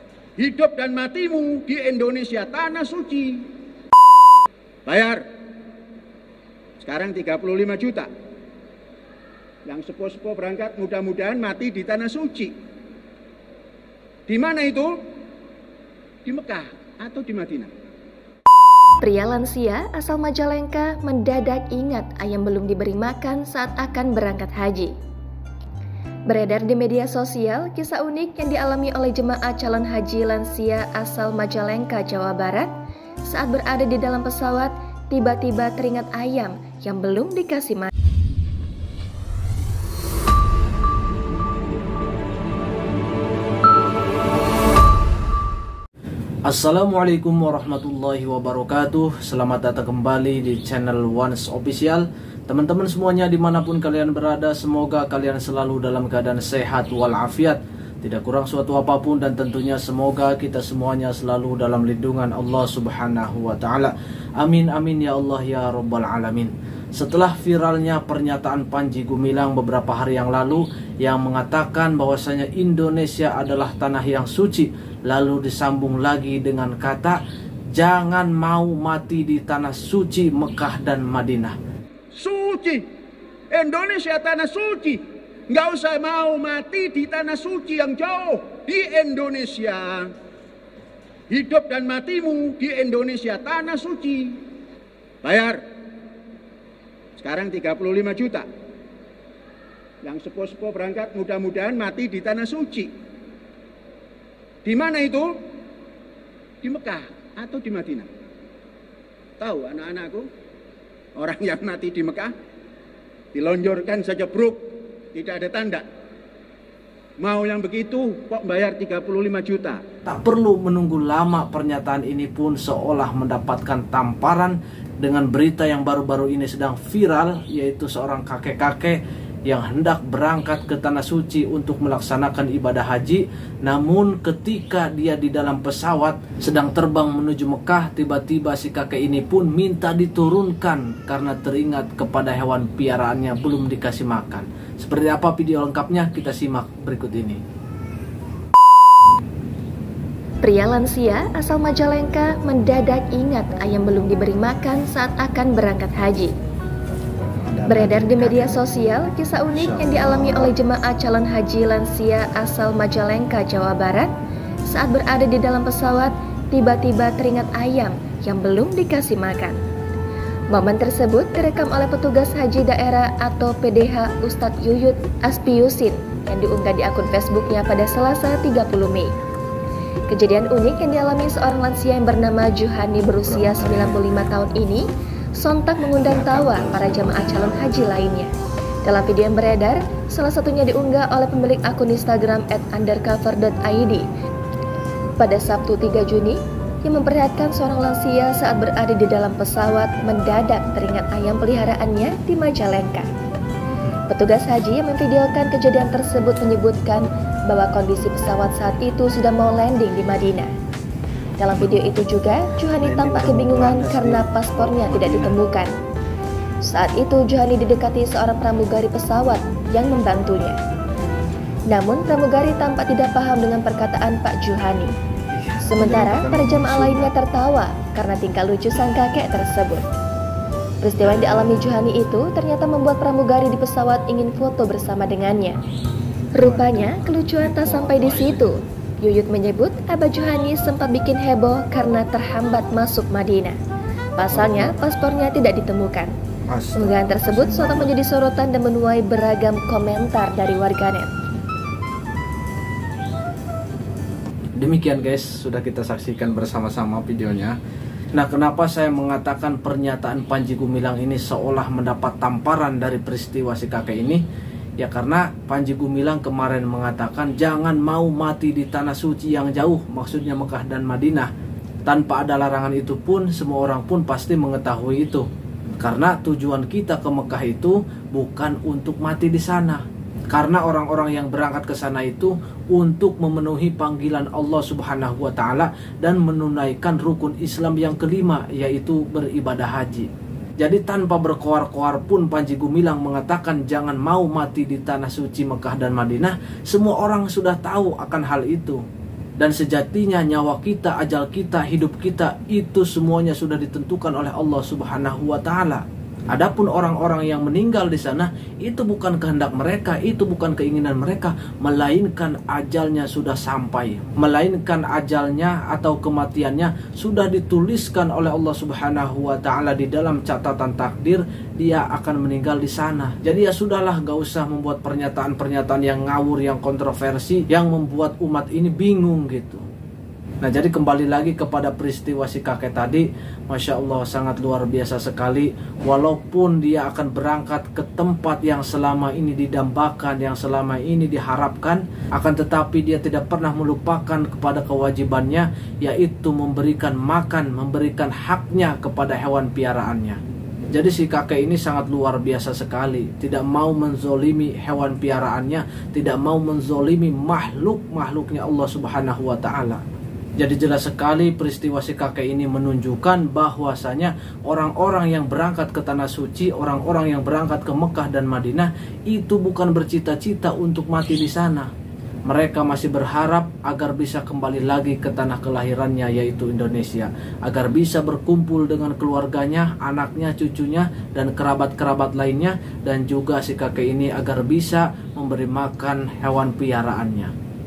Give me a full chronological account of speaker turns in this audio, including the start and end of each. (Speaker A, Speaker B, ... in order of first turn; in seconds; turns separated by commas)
Speaker A: 0.4-3.5, Speaker A: 4.9-5.2, Speaker A: 6.8-8.1, Speaker A: 9.7-12.5, Speaker A: 14.3-15.0, Speaker A: 16.2-17.7, Speaker B: 19.0-24.9, Speaker B: 26.3-32.7, Speaker B: 33.2-37.9, Speaker C: 46.5-77.2, Speaker C: 77.7-81.6, Speaker A: 82.1-82.8, Speaker A: 83.5-90.1, Speaker A: 91.3-94.4, Speaker A: 95.2-95.6, Speaker A: 97.2-98.5, Speaker A: 100.0-102.9, Speaker A: 104.6-105.3, Speaker A: 106.6-108.1, Speaker A: 109.4-110.3, Speaker A: 111.2-112.3, Speaker A: 113.3-114.6, Speaker A: 115.1-115.8, Speaker A: 117.2-119.8, Speaker C: 120.0-147.4, Speaker B: 150.4-156.3, Speaker C: 157.5-158.6, Speaker B: 157.7-164.1, Speaker C: 159.5-160.5, Speaker B: 164.7-169.6, Speaker B: 170.5-179.1, Speaker B: 180.1-188.3, Speaker C: 186.3-186.9, Speaker B: 188.8-194.0, Speaker B: 195.2-203.1, Speaker B: 204.1-210.5, Speaker B: 211.4-215.7, Speaker C: 212.8-215.3, Speaker B: 216.6-220.6, Speaker B: 221.7-224.9, Speaker C: 225.4-227.1, Speaker B: 225.6-229.8, Speaker B: 230.8-235.6, Speaker B: 236.3-243.6, Speaker C: 236.4-238.5, Speaker B: 244.2-246.1, Speaker C: 244.3-244.8, Speaker C: 246.5-247.9, Speaker B: 246.8-251.1, Speaker C: 254.6-257.6, Speaker C: 258.1-264.2, Speaker C: 264.8-271.3, Speaker C: 271.9-298.8, Speaker C: 299.4-329.6, Speaker C: 330.4-350.2, Speaker C: 350.7-359.8, Speaker C: 360.4-371.7, Speaker C: 372.2-387.3